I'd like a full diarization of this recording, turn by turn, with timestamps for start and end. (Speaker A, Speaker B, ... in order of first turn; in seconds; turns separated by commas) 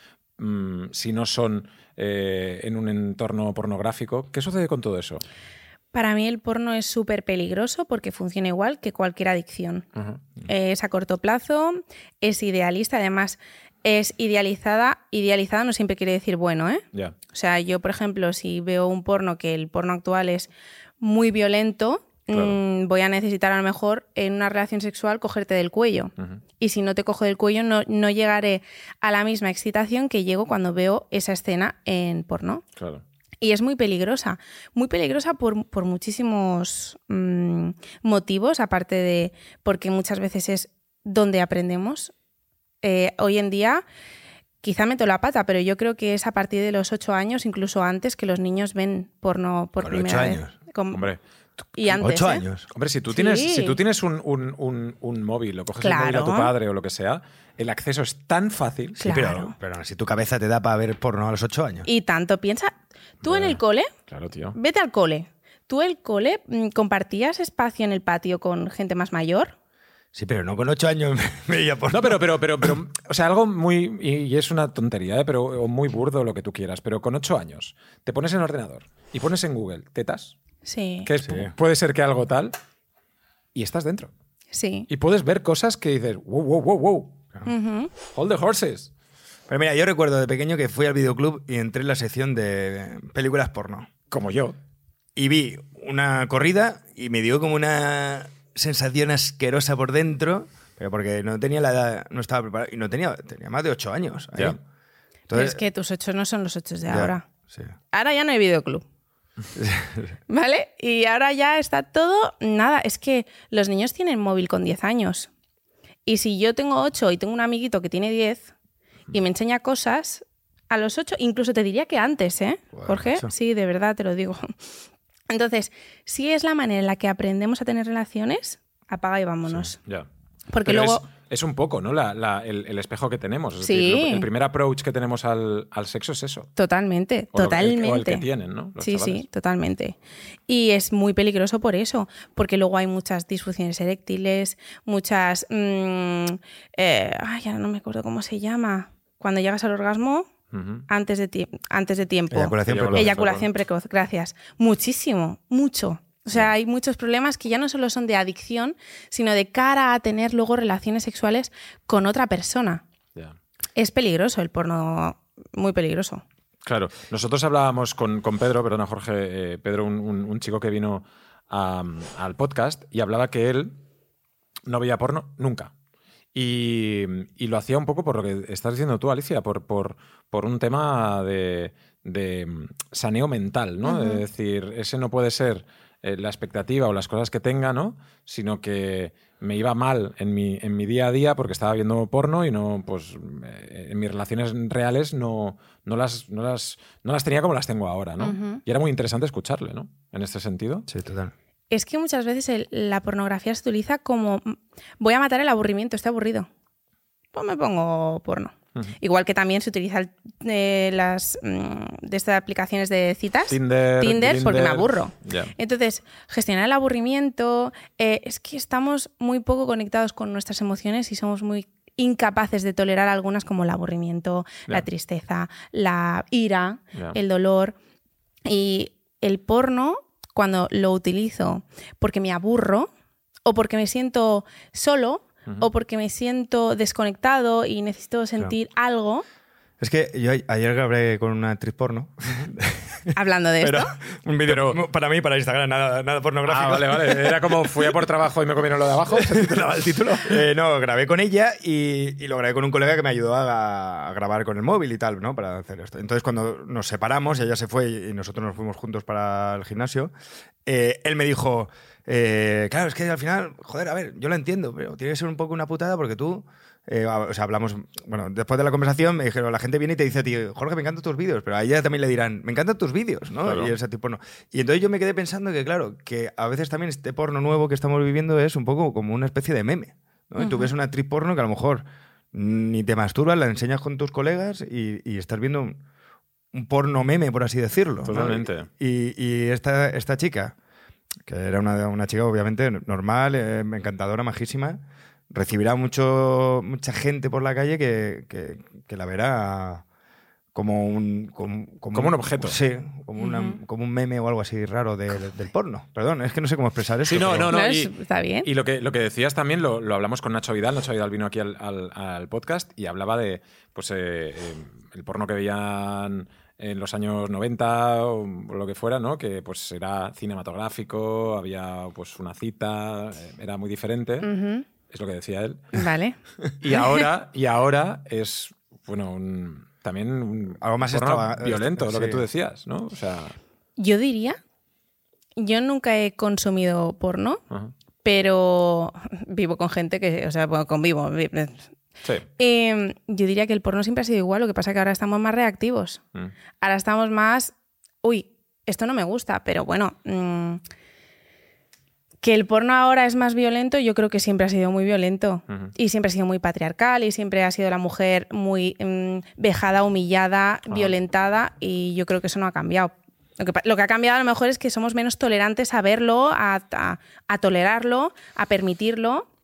Speaker A: 0.4-5.2, Speaker B: 5.9-9.9, Speaker A: 9.9-10.2, Speaker B: 10.4-32.6, Speaker A: 22.3-22.6, Speaker A: 32.8-33.0, Speaker B: 33.4-42.1, Speaker B: 42.8-43.8, Speaker B: 44.6-51.0, Speaker C: 49.8-50.5, Speaker A: 50.9-51.6, Speaker B: 51.8-52.4, Speaker C: 51.9-52.7, Speaker A: 52.7-59.0, Speaker B: 53.1-53.8, Speaker B: 55.8-56.5, Speaker B: 59.0-59.5, Speaker C: 59.0-61.9, Speaker B: 61.8-63.9, Speaker A: 63.2-64.6, Speaker B: 64.5-69.5, Speaker C: 70.1-72.2, Speaker A: 71.9-80.3, Speaker B: 80.6-81.1, Speaker A: 81.0-82.5, Speaker C: 81.2-81.5, Speaker A: 83.5-84.1, Speaker B: 84.5-84.9, Speaker A: 84.9-87.2, Speaker B: 87.5-87.9, Speaker A: 88.1-88.9, Speaker C: 89.5-93.9, Speaker A: 94.1-94.5, Speaker C: 95.2-104.6, Speaker C: 105.3-105.6, Speaker B: 105.3-107.2, Speaker C: 106.9-107.7, Speaker B: 107.9-108.8, Speaker C: 109.5-110.0, Speaker B: 110.3-115.3, Speaker B: 116.0-118.5, Speaker B: 119.1-124.5, Speaker C: 122.7-123.3, Speaker B: 125.3-129.8, Speaker B: 130.5-131.0, Speaker A: 130.6-136.5, Speaker B: 133.6-134.3, Speaker B: 136.6-138.2, Speaker A: 137.3-139.2, Speaker B: 138.8-140.0, Speaker B: 140.5-150.3, Speaker A: 150.5-150.8, Speaker B: 150.9-162.8, Speaker C: 152.3-153.2, Speaker A: 152.7-153.5, Speaker B: 163.8-166.2, Speaker A: 166.7-173.8, Speaker A: 174.7-175.7, Speaker A: 176.3-200.9, Speaker B: 183.8-184.2, Speaker B: 198.2-198.6, Speaker C: 200.9-201.3, Speaker B: 201.7-206.5, Speaker B: 207.3-227.8, Speaker A: 213.5-215.5, Speaker B: 228.4-232.9, Speaker B: 233.4-239.2, Speaker C: 239.8-247.9, Speaker B: 243.1-243.9, Speaker A: 244.4-244.8, Speaker A: 246.4-250.4, Speaker C: 249.1-260.1, Speaker C: 260.6-285.8, Speaker A: 273.4-273.7, Speaker B: 280.4-280.7, Speaker C: 286.5-290.5, Speaker A: 288.0-288.7, Speaker C: 291.2-299.8, Speaker C: 300.5-307.5, Speaker A: 301.9-302.6, Speaker B: 303.2-303.6, Speaker A: 307.1-324.3, Speaker B: 307.5-308.5, Speaker B: 324.2-324.6, Speaker A: 324.9-325.8, Speaker B: 325.7-326.2, Speaker A: 326.6-333.4, Speaker B: 326.7-327.0, Speaker C: 330.6-332.2, Speaker B: 333.8-334.4, Speaker B: 335.4-337.4, Speaker B: 338.0-341.7, Speaker A: 342.0-342.3, Speaker B: 342.4-346.0, Speaker B: 346.6-350.6, Speaker B: 352.2-369.3